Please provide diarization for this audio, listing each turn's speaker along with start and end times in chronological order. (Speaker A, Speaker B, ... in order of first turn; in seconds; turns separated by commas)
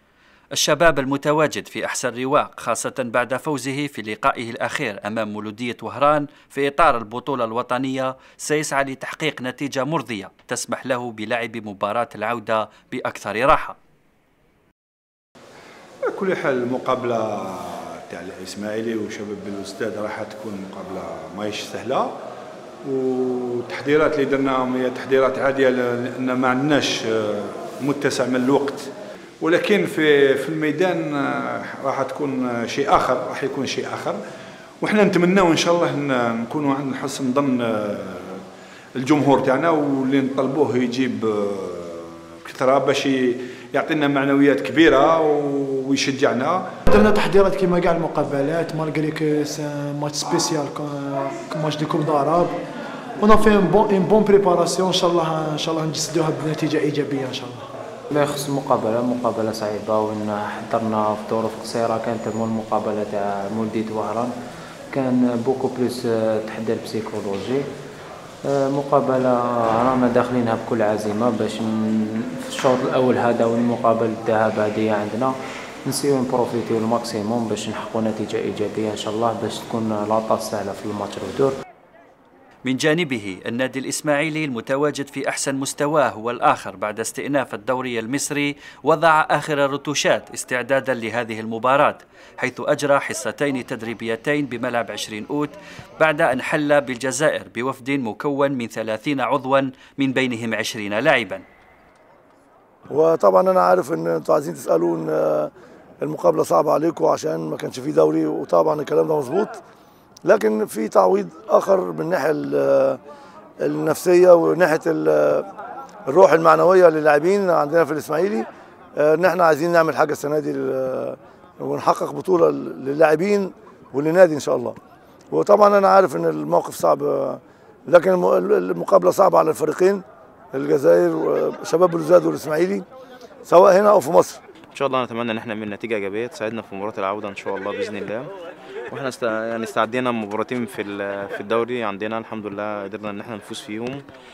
Speaker A: 0.5-13.8, Speaker B: 16.1-22.1, Speaker B: 22.8-28.9, Speaker B: 29.4-34.2, Speaker B: 34.8-38.4, Speaker B: 39.0-46.6, Speaker C: 46.9-52.6, Speaker C: 53.2-57.7, Speaker D: 58.1-64.3, Speaker D: 64.9-67.6, Speaker D: 68.5-71.7, Speaker D: 72.4-75.3, Speaker D: 75.9-81.5, Speaker A: 82.6-101.4, Speaker E: 102.9-105.5, Speaker E: 106.0-109.6, Speaker E: 110.2-113.0, Speaker E: 113.6-115.5, Speaker E: 116.1-124.7, Speaker E: 125.3-132.8, Speaker E: 133.4-134.4, Speaker F: 134.7-138.3, Speaker F: 138.9-144.0